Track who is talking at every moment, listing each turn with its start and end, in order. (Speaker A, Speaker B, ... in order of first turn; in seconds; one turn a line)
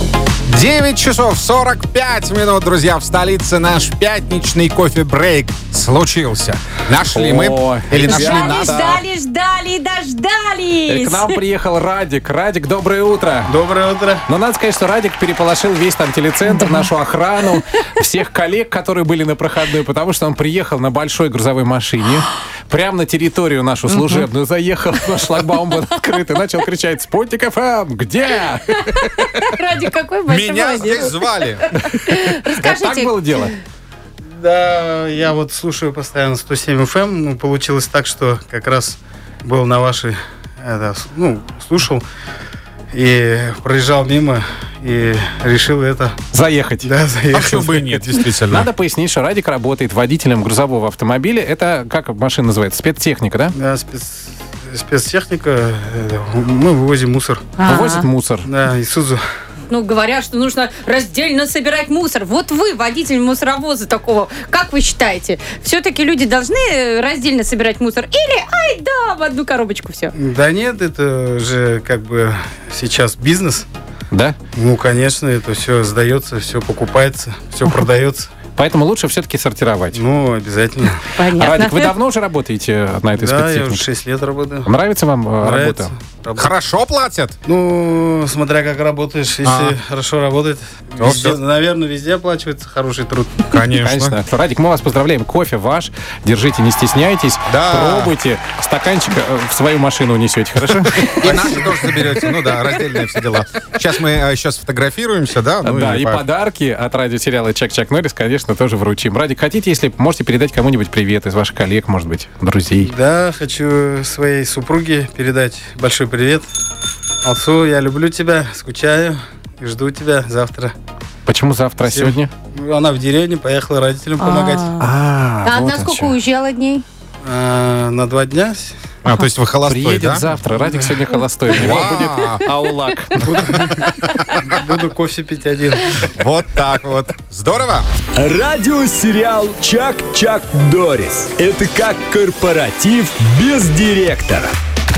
Speaker A: 0.5-9.0
Speaker B: 7.1-8.5
Speaker C: 8.0-11.4
Speaker B: 10.9-13.5
Speaker D: 13.5-14.2
Speaker B: 14.3-29.4
Speaker C: 16.5-16.9
Speaker C: 23.9-24.2
Speaker C: 28.8-33.5
Speaker A: 30.3-31.6
Speaker B: 31.8-33.5
Speaker D: 34.3-42.0
Speaker D: 42.9-46.1
Speaker B: 46.3-46.9
Speaker D: 46.8-48.0
Speaker A: 47.3-48.7
Speaker B: 48.5-53.5
Speaker D: 53.5-57.5
Speaker C: 57.6-58.0
Speaker B: 57.6-58.5
Speaker D: 58.4-59.2
Speaker C: 59.7-70.1
Speaker D: 70.1-73.7
Speaker B: 74.1-74.3
Speaker D: 74.5-78.3
Speaker B: 78.6-80.0
Speaker D: 79.9-81.1
Speaker C: 81.1-81.9
Speaker B: 81.3-83.8
Speaker D: 83.2-84.7
Speaker B: 84.7-85.9
Speaker D: 85.4-86.5
Speaker A: 86.3-87.3
Speaker D: 87.4-93.6
Speaker A: 89.4-89.8
Speaker A: 91.0-91.4
Speaker A: 93.5-94.2
Speaker B: 93.8-101.7
Speaker A: 97.5-98.1
Speaker A: 101.0-106.2
Speaker D: 101.2-101.5
Speaker B: 105.6-112.9
Speaker D: 112.8-116.5
Speaker D: 117.2-120.7
Speaker B: 121.2-122.3
Speaker D: 121.8-124.8
Speaker C: 124.2-124.9
Speaker B: 124.8-126.2
Speaker C: 125.4-126.8
Speaker D: 127.2-128.7
Speaker A: 129.0-130.2
Speaker B: 129.6-133.9
Speaker D: 130.6-131.0
Speaker A: 131.5-132.4
Speaker D: 133.2-136.0
Speaker A: 136.0-137.8
Speaker E: 138.2-144.5